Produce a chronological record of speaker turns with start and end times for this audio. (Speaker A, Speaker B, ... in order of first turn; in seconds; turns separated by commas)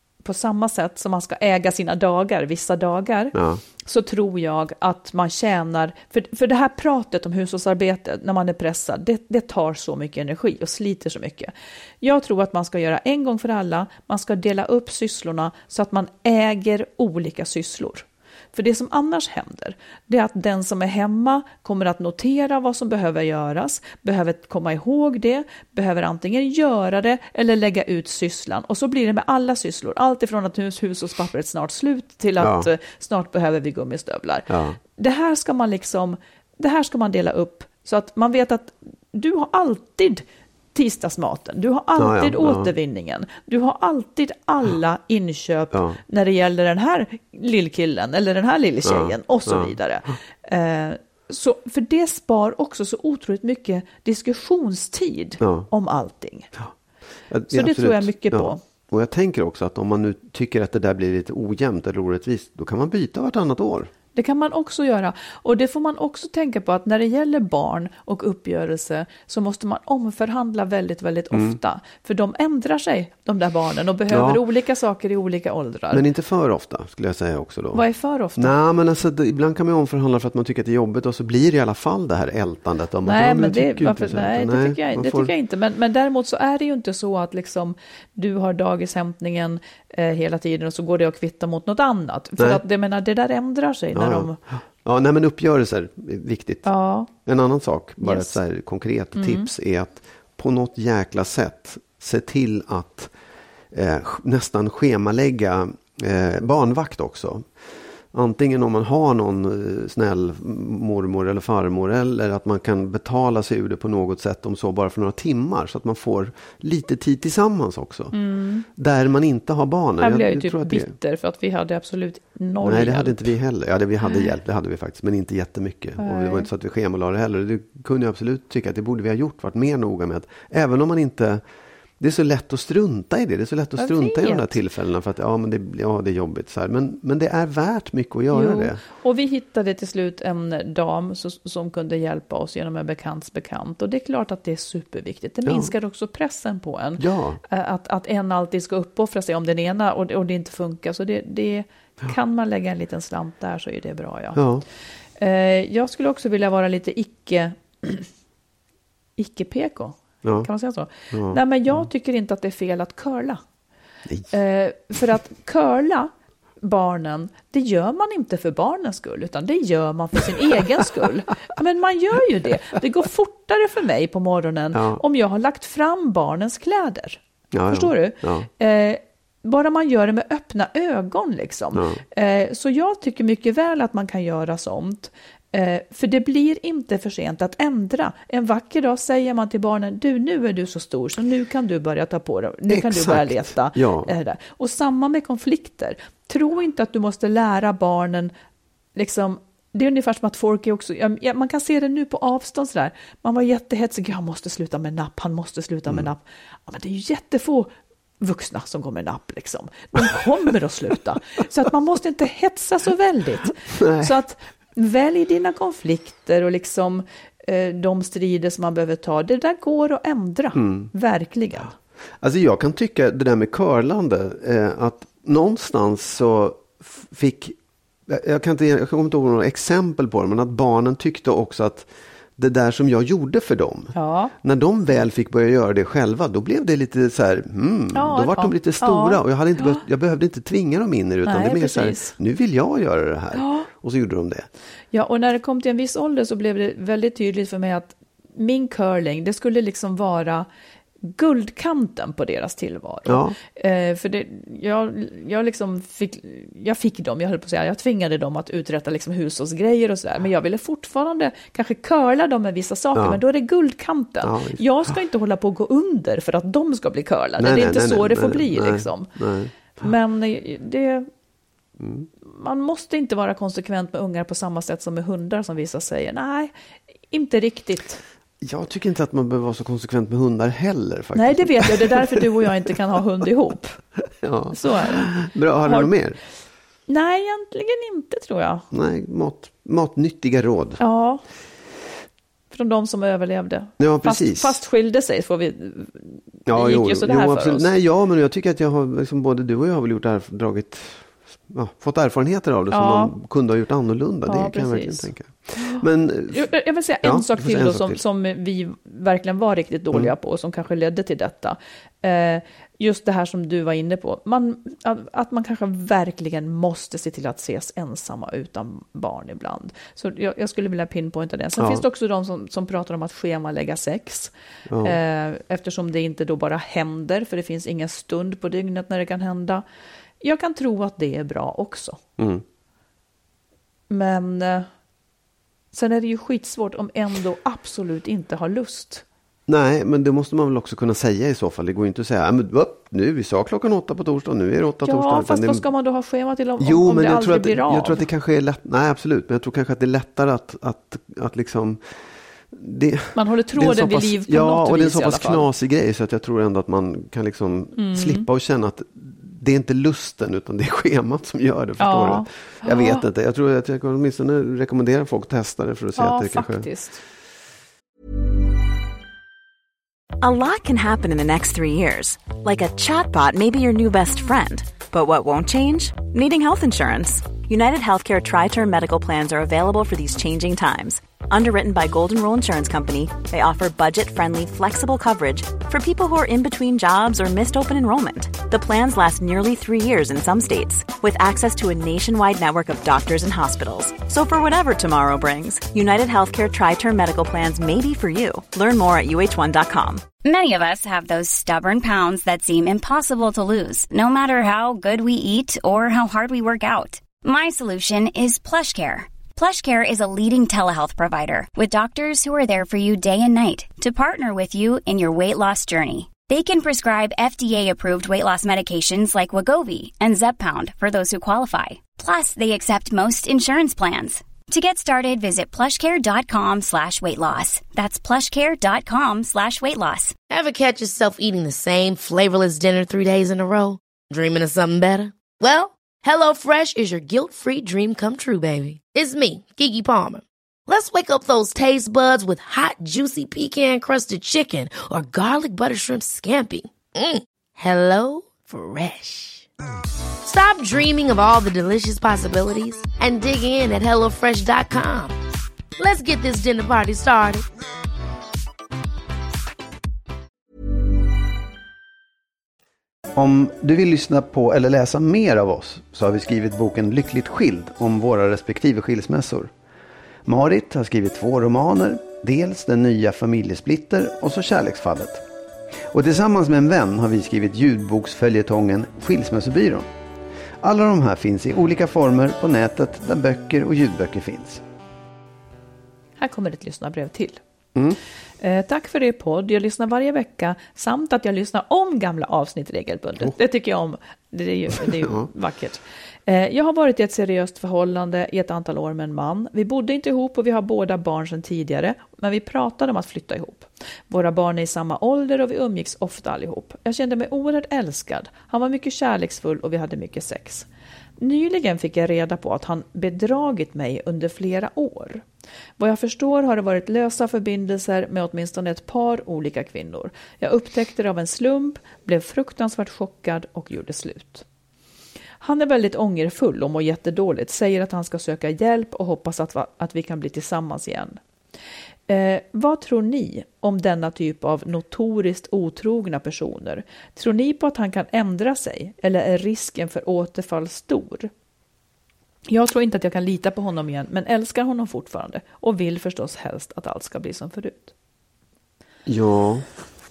Speaker A: 0.2-56.5, Speaker B: 3.3-3.6, Speaker B: 32.4-32.7, Speaker B: 34.5-34.8, Speaker B: 42.0-42.7, Speaker B: 45.7-46.0, Speaker B: 48.8-50.1, Speaker B: 55.4-55.7, Speaker B: 57.3-63.9, Speaker A: 57.5-58.6, Speaker A: 64.1-76.0, Speaker B: 71.3-71.6, Speaker B: 74.1-74.4, Speaker B: 75.9-77.8, Speaker A: 77.7-78.5, Speaker B: 78.3-85.3, Speaker A: 83.0-94.4, Speaker B: 92.4-92.6, Speaker B: 93.9-103.1, Speaker A: 96.6-97.1, Speaker A: 98.0-98.4, Speaker A: 99.2-99.5, Speaker B: 103.7-107.5, Speaker B: 108.1-118.1, Speaker A: 118.1-118.7, Speaker B: 118.7-120.9, Speaker A: 120.0-123.3, Speaker B: 122.6-131.4, Speaker A: 124.0-124.3, Speaker A: 126.0-126.5, Speaker B: 132.0-138.8, Speaker A: 133.8-134.6, Speaker A: 138.3-154.4, Speaker B: 145.4-145.7, Speaker B: 147.0-147.4, Speaker B: 154.3-154.6, Speaker A: 155.2-158.1, Speaker A: 159.2-163.4, Speaker B: 160.2-160.5, Speaker B: 161.1-161.8, Speaker A: 164.3-166.1, Speaker A: 166.6-198.3, Speaker B: 174.7-175.0, Speaker B: 177.5-178.5, Speaker B: 181.7-182.0, Speaker B: 192.7-194.1, Speaker A: 198.9-221.7, Speaker B: 213.7-214.1, Speaker B: 220.5-220.9, Speaker B: 222.2-227.6, Speaker B: 228.1-244.5, Speaker A: 233.9-234.3, Speaker A: 237.9-239.8, Speaker A: 241.2-242.1, Speaker A: 243.3-243.7, Speaker A: 244.9-250.5, Speaker A: 251.0-269.1, Speaker B: 253.1-253.4, Speaker B: 262.9-263.2, Speaker B: 264.2-264.6, Speaker B: 267.4-269.7, Speaker A: 269.7-271.1, Speaker B: 271.8-272.1, Speaker A: 272.2-276.5, Speaker A: 277.1-278.0, Speaker B: 278.4-282.7, Speaker A: 281.1-283.8, Speaker B: 284.2-286.2, Speaker A: 284.5-285.1, Speaker A: 285.6-285.9, Speaker A: 286.9-288.6, Speaker B: 288.7-290.8, Speaker A: 290.8-291.2, Speaker A: 292.5-297.7, Speaker B: 293.8-294.6, Speaker B: 296.4-308.0, Speaker A: 302.7-303.1, Speaker A: 304.2-329.6, Speaker B: 321.6-321.8, Speaker B: 324.7-325.0, Speaker A: 330.2-332.0, Speaker B: 332.2-332.4, Speaker A: 333.9-334.7, Speaker A: 335.7-339.0, Speaker B: 339.5-345.6, Speaker A: 344.8-348.1, Speaker B: 346.6-351.8, Speaker B: 352.5-366.7, Speaker A: 353.1-355.5, Speaker A: 357.8-358.2, Speaker A: 361.8-363.0, Speaker A: 365.9-367.0, Speaker C: 370.2-400.0, Speaker D: 400.2-430.1, Speaker E: 430.3-449.5, Speaker E: 450.2-455.1, Speaker E: 455.8-457.4, Speaker B: 463.1-469.5, Speaker B: 470.2-475.2, Speaker B: 475.9-479.9, Speaker B: 480.6-484.6, Speaker A: 486.2-487.4, Speaker A: 488.4-510.6, Speaker B: 494.8-495.3, Speaker A: 511.2-515.2, Speaker A: 515.8-524.5, Speaker A: 525.4-531.2, Speaker A: 532.1-541.3, Speaker A: 542.5-547.9, Speaker B: 549.0-549.6